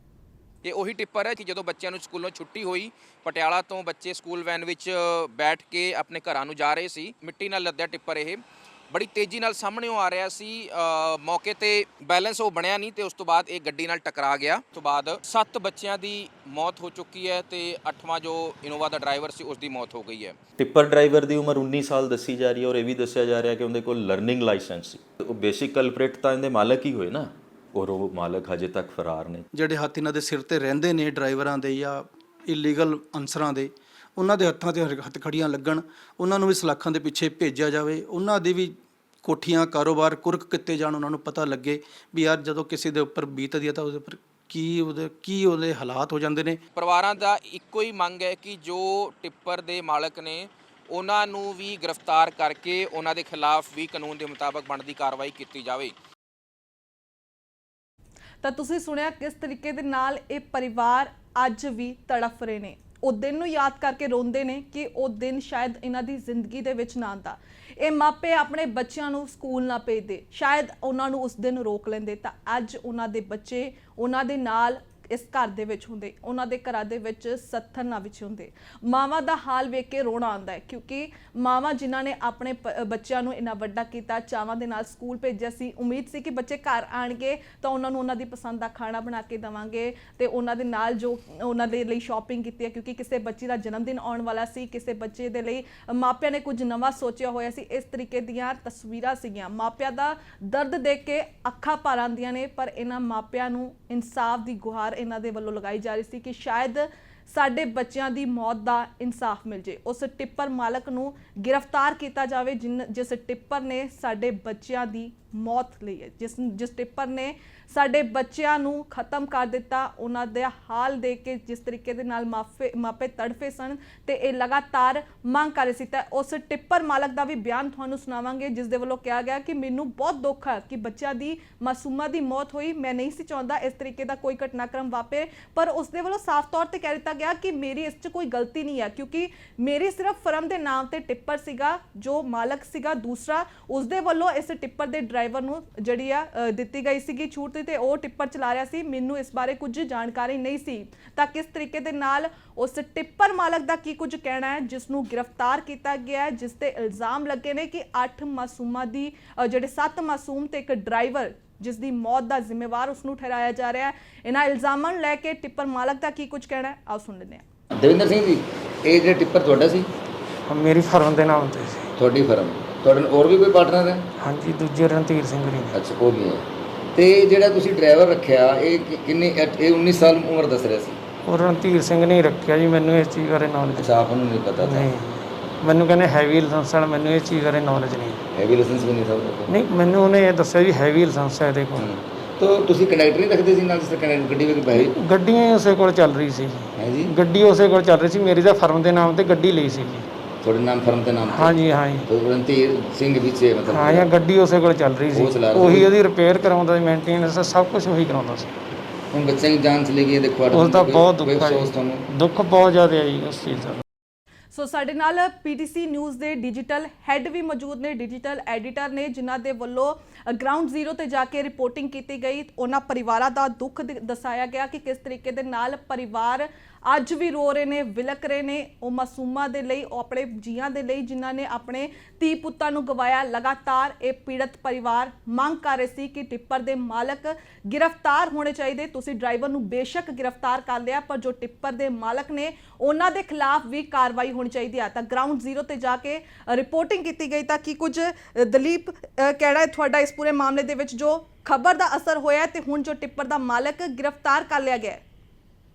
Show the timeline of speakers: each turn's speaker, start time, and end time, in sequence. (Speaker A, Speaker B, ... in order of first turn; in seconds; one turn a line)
Speaker A: 0.6-20.4
Speaker B: 20.6-29.5
Speaker C: 29.5-46.6
Speaker A: 46.8-55.9
Speaker D: 58.4-167.4
Speaker E: 167.8-169.9
Speaker F: 170.5-171.9
Speaker E: 172.0-174.0
Speaker F: 174.2-175.7
Speaker E: 175.7-181.0
Speaker F: 181.2-184.0
Speaker E: 183.8-184.9
Speaker F: 184.6-188.2
Speaker E: 188.3-189.5
Speaker F: 189.5-191.9
Speaker E: 191.8-194.9
Speaker F: 194.7-200.1
Speaker E: 196.8-197.1
Speaker E: 200.4-204.1
Speaker F: 201.3-202.1
Speaker F: 203.7-208.5
Speaker E: 205.1-205.9
Speaker E: 209.1-212.0
Speaker F: 210.5-213.8
Speaker D: 214.5-255.0